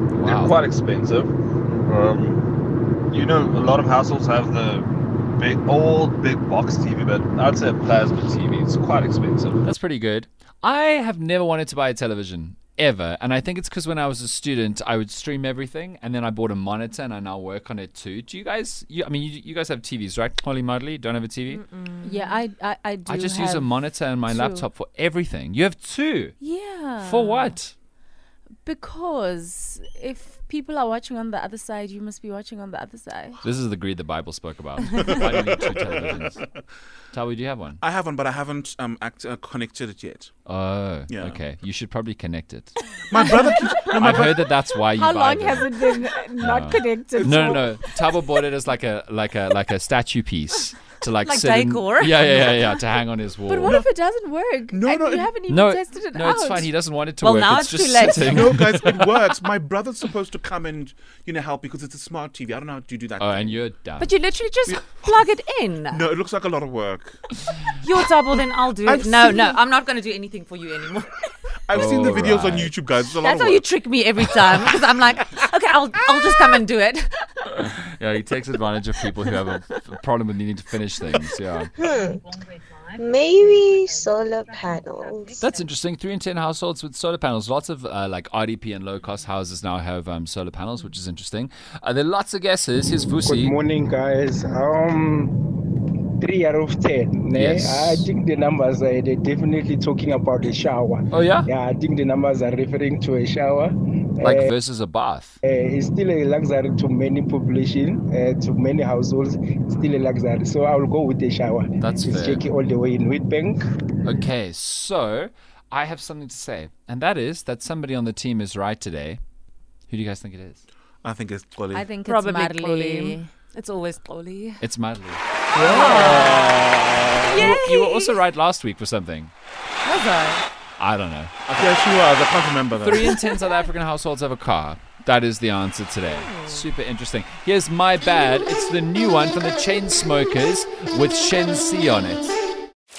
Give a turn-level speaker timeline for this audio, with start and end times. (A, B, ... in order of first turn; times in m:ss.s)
0:00.1-0:00.6 A
0:00.2-0:02.5 B
0:03.1-0:09.6 B
0:09.6-0:21.6 A
0:21.5-0:22.4 C
0:22.0-0:24.7 D
0:23.0-0:26.3 A
0:26.4-0:27.6 D
0:27.0-0:27.7 A
0:28.6-0:33.4 D
0:33.4-0:36.4 A
0:35.0-0:36.6 E
0:37.1-0:37.8 A
0:37.8-0:40.3 E
0:40.5-0:42.8 A
0:41.1-0:41.4 E
0:43.1-0:44.5 E
0:43.9-0:53.8 A
0:44.9-0:47.7 D
0:47.1-0:47.7 E
0:51.2-0:52.8 C
0:53.5-0:56.7 D
0:54.7-0:55.4 E
0:55.5-0:59.0 A
0:57.2-0:59.0 C
0:58.0-1:03.6 E
1:03.2-1:04.1 A
1:04.0-1:06.0 C
1:04.6-1:05.3 E
1:05.8-1:07.6 E
1:07.7-1:11.3 C
1:08.8-1:09.6 E
1:11.6-1:13.7 E
1:11.7-1:12.7 A
1:13.2-1:17.7 C
1:14.4-1:14.9 E
1:17.5-1:21.7 A
1:21.8-1:22.2 F
1:23.0-1:25.4 F
1:25.4-1:33.5 A
1:33.2-1:35.4 G
1:36.2-1:44.5 G
1:37.3-1:38.1 A
1:41.1-1:41.5 A
1:44.2-1:45.4 A
1:45.4-1:53.6 G
1:51.8-1:52.4 A
1:54.0-1:59.2 A
1:59.9-2:00.6 A
2:01.0-2:02.0 E
2:01.7-2:03.3 D
2:02.0-2:04.6 C
2:04.6-2:05.2 A
2:05.5-2:06.6 C
2:05.5-2:06.7 E
2:05.7-2:09.3 A
2:07.3-2:08.1 D
2:07.3-2:07.6 C
2:09.8-2:10.4 C
2:10.8-2:11.8 A
2:11.5-2:13.2 E
2:12.8-2:22.3 A